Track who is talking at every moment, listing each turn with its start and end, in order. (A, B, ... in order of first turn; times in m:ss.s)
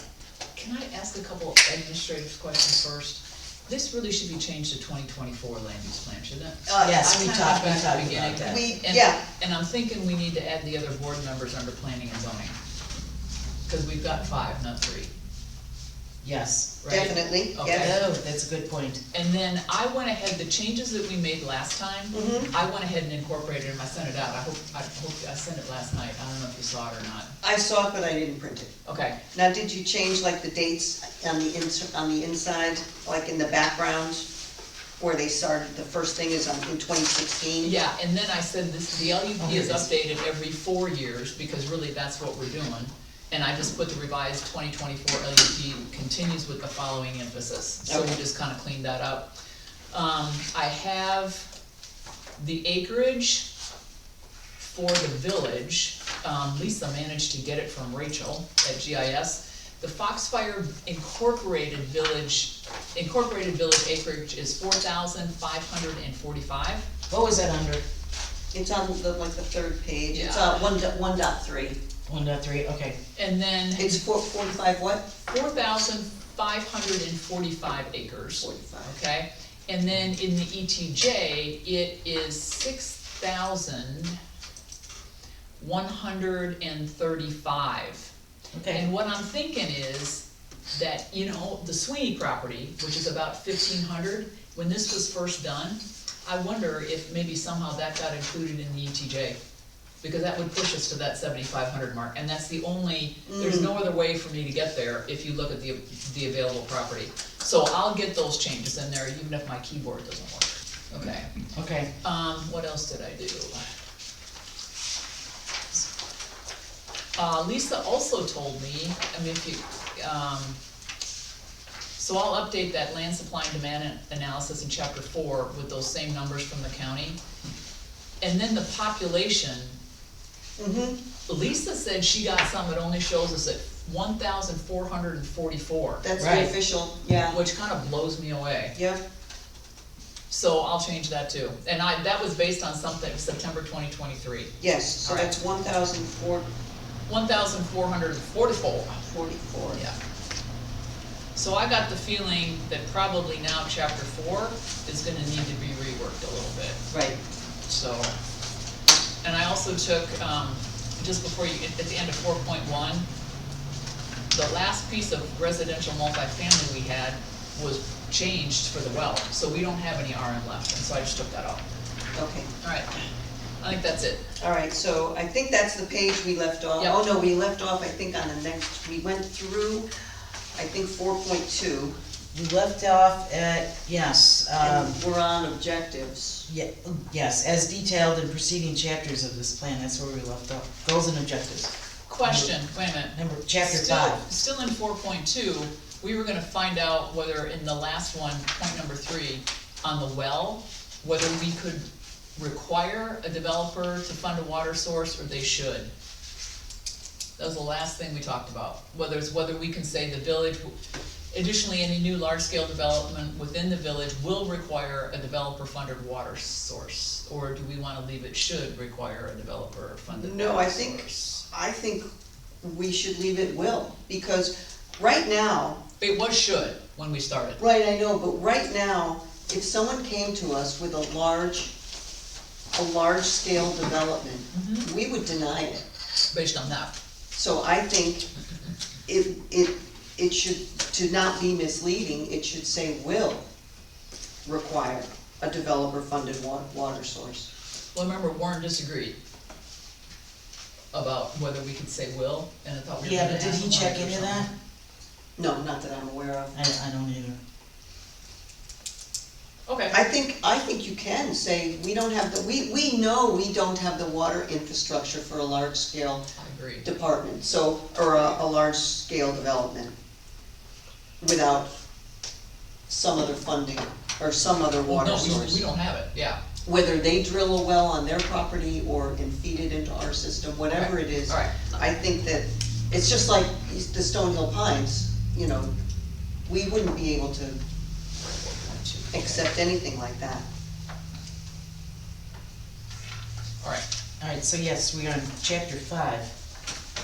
0:00.6-0:12.6 A
0:06.7-0:07.6 B
0:06.8-0:08.6 C
0:08.4-0:09.2 B
0:13.7-0:15.1 A
0:16.2-0:16.8 C
0:16.8-0:18.0 A
0:16.9-0:17.9 B
0:17.7-0:19.0 C
0:19.1-0:27.4 A
0:22.1-0:22.5 B
0:27.4-0:28.7 B
0:28.8-0:29.2 A
0:29.3-0:34.3 B
0:35.0-0:37.7 B
0:37.6-0:49.3 A
0:39.4-0:39.9 C
0:47.9-0:48.2 B
0:49.9-0:51.5 A
0:52.4-0:53.5 A
0:54.6-1:06.9 A
1:07.1-1:07.8 C
1:08.5-1:11.8 B
1:10.1-1:10.6 A
1:12.1-1:13.0 C
1:13.2-1:14.0 A
1:13.8-1:15.1 B
1:15.2-1:24.2 A
1:18.4-1:19.0 B
1:25.6-1:28.1 A
1:28.5-1:28.8 C
1:28.7-1:39.4 A
1:40.0-1:51.3 A
1:43.3-1:43.7 B
1:51.6-1:51.9 C
1:52.0-1:53.6 A
1:57.2-2:00.6 A
2:02.0-2:07.2 A
2:08.2-2:09.8 A
2:10.6-2:11.0 B
2:11.3-2:16.0 A
2:16.0-2:17.4 B
2:16.2-2:16.5 C
2:17.3-2:18.8 A
2:18.8-2:19.0 B
2:20.3-2:25.3 A
2:24.6-2:26.5 B
2:27.1-2:29.0 A
2:29.1-2:29.8 B
2:31.4-2:36.8 A
2:36.9-2:37.2 B
2:37.7-2:38.1 A
2:39.2-2:43.1 A
2:44.3-2:51.6 A
2:52.1-2:52.5 B
2:52.6-2:52.9 A
2:53.6-2:54.2 A
2:54.4-2:59.9 B
3:00.6-3:02.0 B
3:02.3-3:05.0 C
3:04.6-3:06.5 B
3:06.5-3:12.5 C
3:12.1-3:25.9 A
3:13.1-3:14.2 C
3:27.4-3:30.7 A
3:31.3-3:41.4 A
3:40.1-3:42.1 B
3:42.6-3:45.8 B
3:46.0-3:47.6 A
3:47.6-3:51.7 B
3:52.8-3:55.8 B
3:54.5-3:54.9 A
3:56.3-3:56.9 A
3:57.3-3:58.3 B
3:59.1-4:03.5 B
4:04.4-4:07.5 B
4:07.9-4:09.2 A
4:10.9-4:14.5 A
4:13.0-4:14.5 C
4:15.4-4:16.6 B
4:16.5-4:17.4 C
4:19.7-4:20.0 A
4:19.9-4:26.2 B
4:26.4-4:26.9 A
4:26.8-4:30.0 B
4:31.2-4:31.7 B
4:32.9-4:35.6 B
4:34.8-4:36.4 A
4:36.6-4:45.7 B
4:40.7-4:41.7 A
4:46.5-4:47.6 B
4:48.4-4:49.4 A
4:49.1-4:50.4 B
4:54.2-4:56.3 C